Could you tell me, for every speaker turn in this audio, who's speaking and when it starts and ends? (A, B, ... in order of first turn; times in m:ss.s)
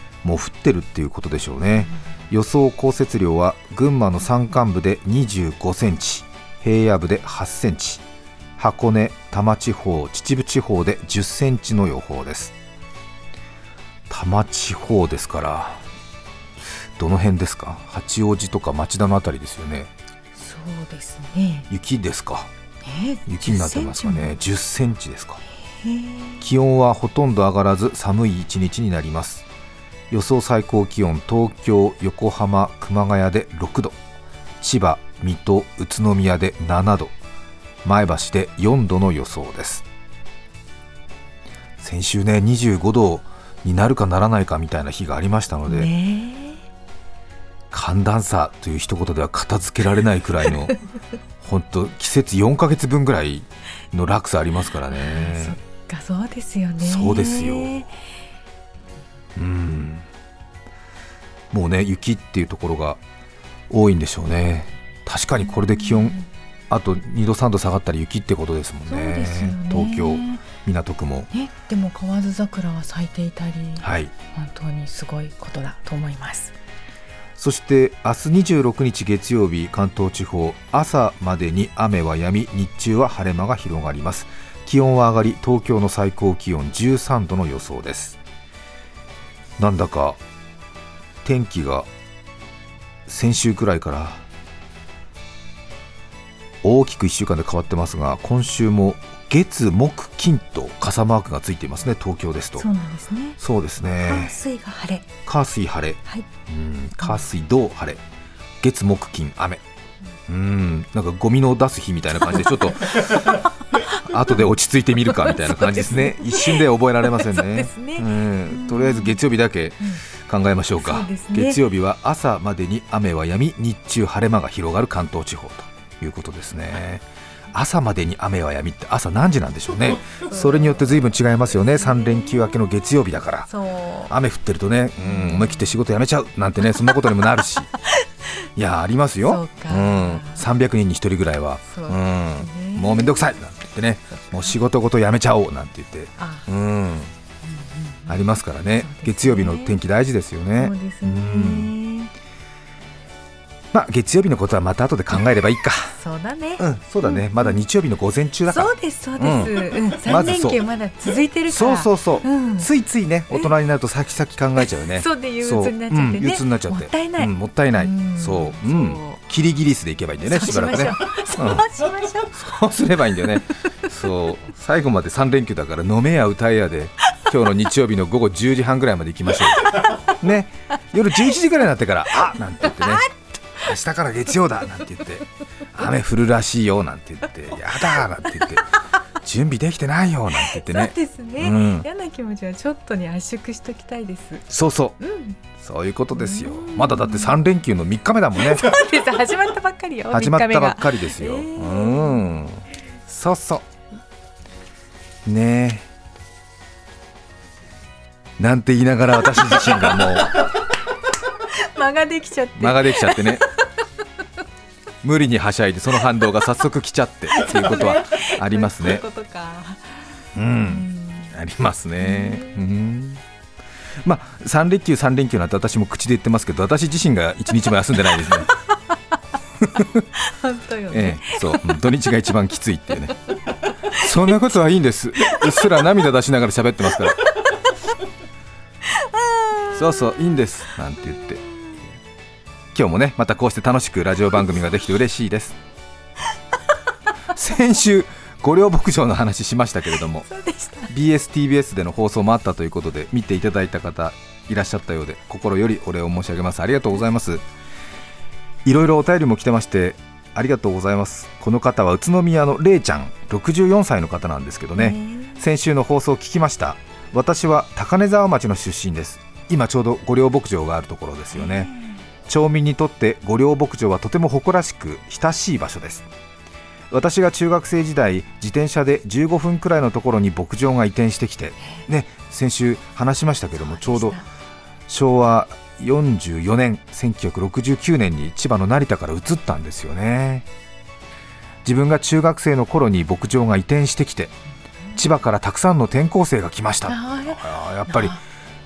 0:00.2-0:08.0 A
0:08.6-0:12.5 A
0:14.1-0:15.8 A
0:17.0-0:19.9 A
0:20.4-0:21.7 B
0:21.7-0:22.5 A
0:22.8-0:24.3 B
0:23.3-0:25.4 A
0:25.8-0:26.4 B
0:26.4-0:29.4 A
0:30.1-0:34.0 A
0:34.6-0:37.1 A
0:37.8-0:39.8 A
0:41.8-0:45.9 A
0:45.7-0:46.6 B
0:47.7-0:50.8 A
0:51.4-0:55.6 A
0:54.9-0:57.9 B
0:56.8-0:57.9 A
0:59.4-1:00.1 A
1:01.5-1:03.0 A
1:03.7-1:06.2 A
1:05.7-1:06.2 B
1:06.7-1:11.3 A
1:08.9-1:10.4 B
1:11.3-1:16.5 B
1:13.8-1:14.1 A
1:17.4-1:28.2 A
1:29.6-1:30.2 A
1:31.2-1:31.9 A
1:33.1-1:34.2 A
1:36.6-1:42.7 A
1:42.6-1:43.4 B
1:43.4-1:44.4 A
1:44.0-1:45.1 B
1:45.2-1:48.0 A
1:48.6-1:49.6 A
1:50.3-1:53.4 A
1:54.0-2:13.5 A
1:55.2-1:59.2 B
2:00.8-2:01.6 B
2:10.3-2:11.0 B
2:11.7-2:12.4 B
2:13.5-2:14.1 B
2:14.1-2:17.7 A
2:15.1-2:15.6 B
2:18.6-2:27.1 A
2:19.2-2:20.4 B
2:21.7-2:23.4 B
2:24.1-2:24.5 B
2:26.2-2:26.4 B
2:27.5-2:28.2 B
2:28.1-2:31.7 A
2:28.8-2:29.8 B
2:30.6-2:32.1 B
2:33.7-2:36.0 A
2:35.9-2:37.6 B
2:36.6-2:40.6 A
2:38.5-2:42.7 B
2:41.5-3:08.7 A
2:44.8-2:49.2 B
2:50.2-2:52.4 B
3:09.2-3:11.9 A
3:10.4-3:14.4 B
3:14.5-3:15.0 A
3:15.0-3:15.4 B
3:15.6-3:18.8 A
3:16.2-3:17.3 B
3:18.4-3:22.2 B
3:20.1-3:23.6 A
3:25.3-3:25.9 A
3:28.4-3:30.5 A
3:31.5-3:33.4 B
3:32.6-3:33.5 A
3:35.0-3:39.0 A
3:37.3-3:39.9 B
3:40.4-3:43.2 A
3:40.6-3:41.3 B
3:42.0-3:42.6 B
3:44.0-3:48.5 A
3:49.6-3:50.1 A
3:50.2-3:51.8 B
3:50.9-3:53.2 A
3:53.6-3:54.0 B
3:53.9-3:57.2 A
3:58.9-3:59.8 B
3:59.7-4:01.4 A
4:02.7-4:05.6 A
4:07.3-4:10.3 A
4:10.3-4:10.9 B
4:10.9-4:17.4 A
4:18.6-4:31.7 A
4:24.8-4:25.4 B
4:31.3-4:31.9 B
4:32.3-4:36.1 A
4:36.9-4:44.2 A
4:43.6-4:44.2 B
4:44.9-4:50.5 A
4:51.6-4:54.3 A
4:55.0-4:58.2 A
4:56.9-4:58.2 B